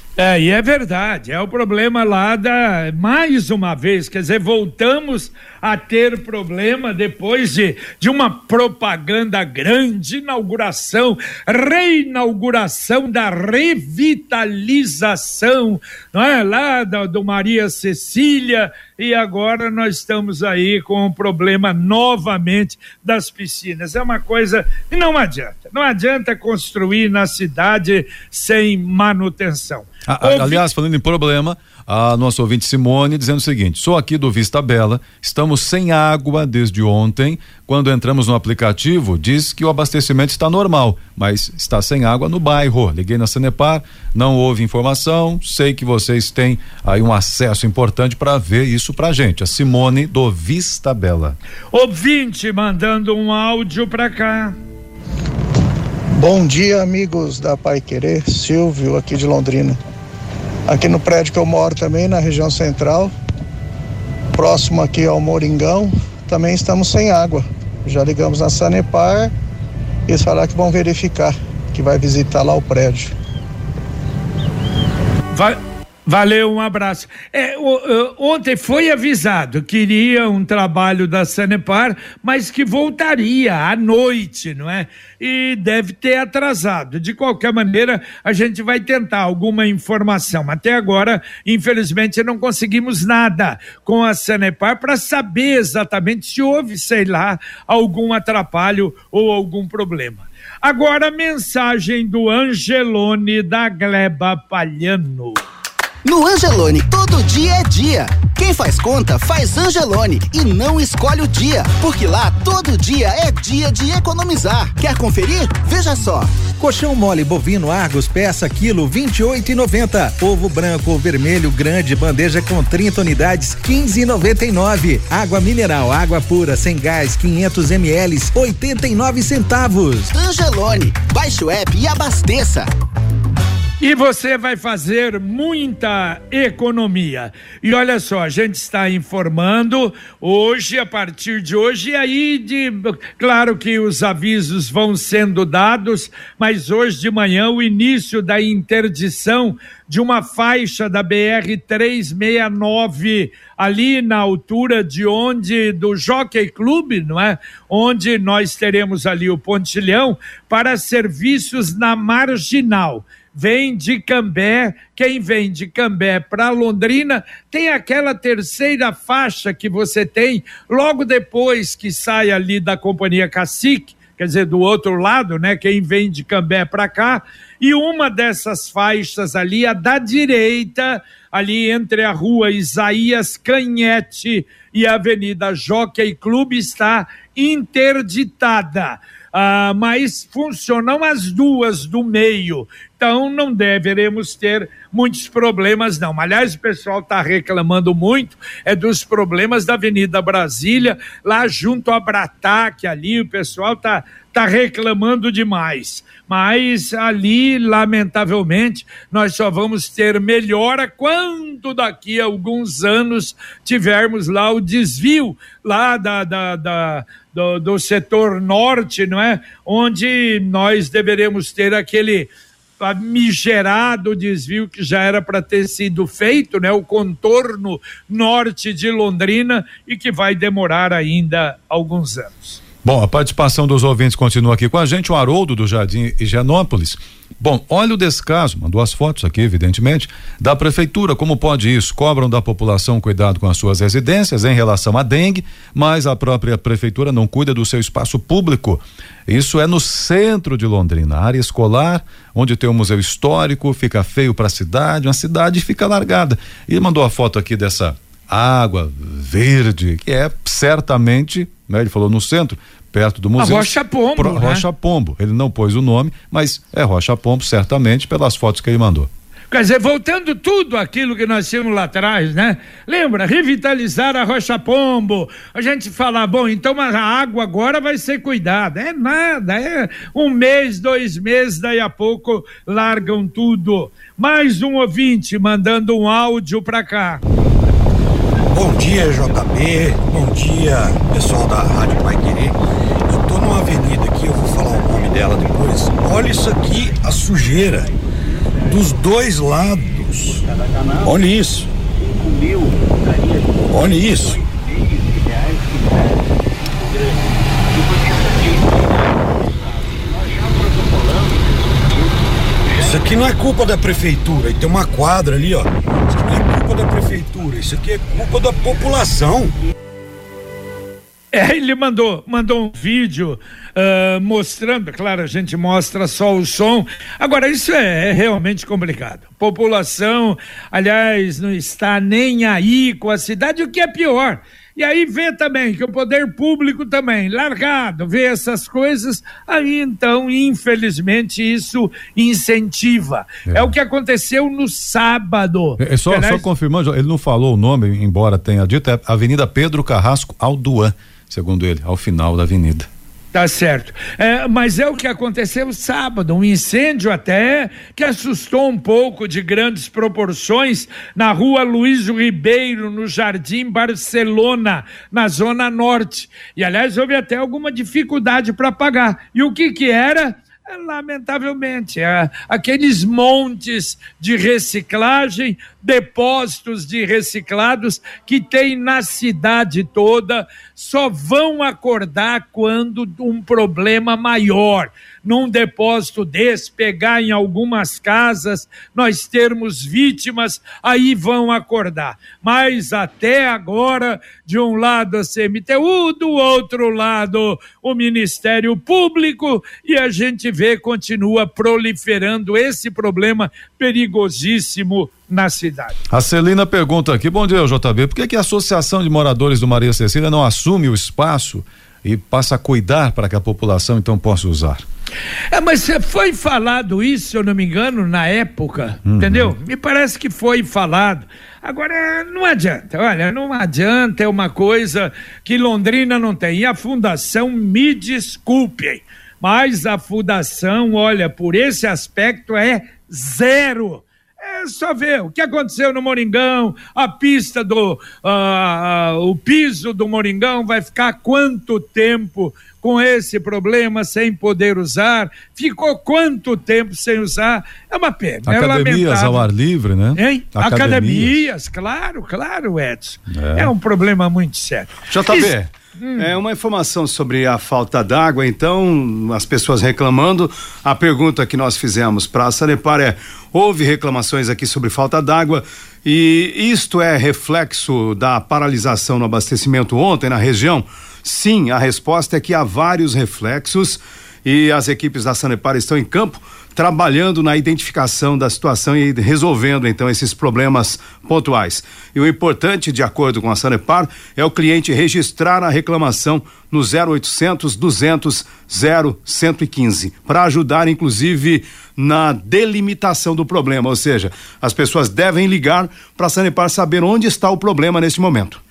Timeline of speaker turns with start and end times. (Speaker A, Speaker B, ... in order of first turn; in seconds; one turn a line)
Speaker A: 0.2-30.6
Speaker B: 30.1-51.4
Speaker A: 51.7-54.6
Speaker C: 56.2-59.8
Speaker C: 60.7-63.1
Speaker C: 64.4-69.3
Speaker C: 70.1-73.1
Speaker A: 75.3-105.4
Speaker D: 106.0-116.3
Speaker E: 116.6-130.1
Speaker D: 130.1-132.7
Speaker A: 133.8-232.6
Speaker B: 232.8-269.1
Speaker A: 263.4-264.7
Speaker A: 269.5-287.2
Speaker F: 288.5-292.6
Speaker F: 293.1-297.9
Speaker F: 298.7-300.5
Speaker F: 301.0-301.7
Speaker F: 303.7-304.4
Speaker F: 312.8-319.5
Speaker A: 321.3-346.5
Speaker B: 343.5-343.7
Speaker B: 345.8-352.9
Speaker A: 353.3-406.0
Speaker B: 406.1-414.9
Speaker A: 415.5-449.5
Speaker B: 419.0-419.5
Speaker B: 448.5-451.5
Speaker A: 450.2-456.3
Speaker B: 453.3-453.7
Speaker G: 455.1-498.6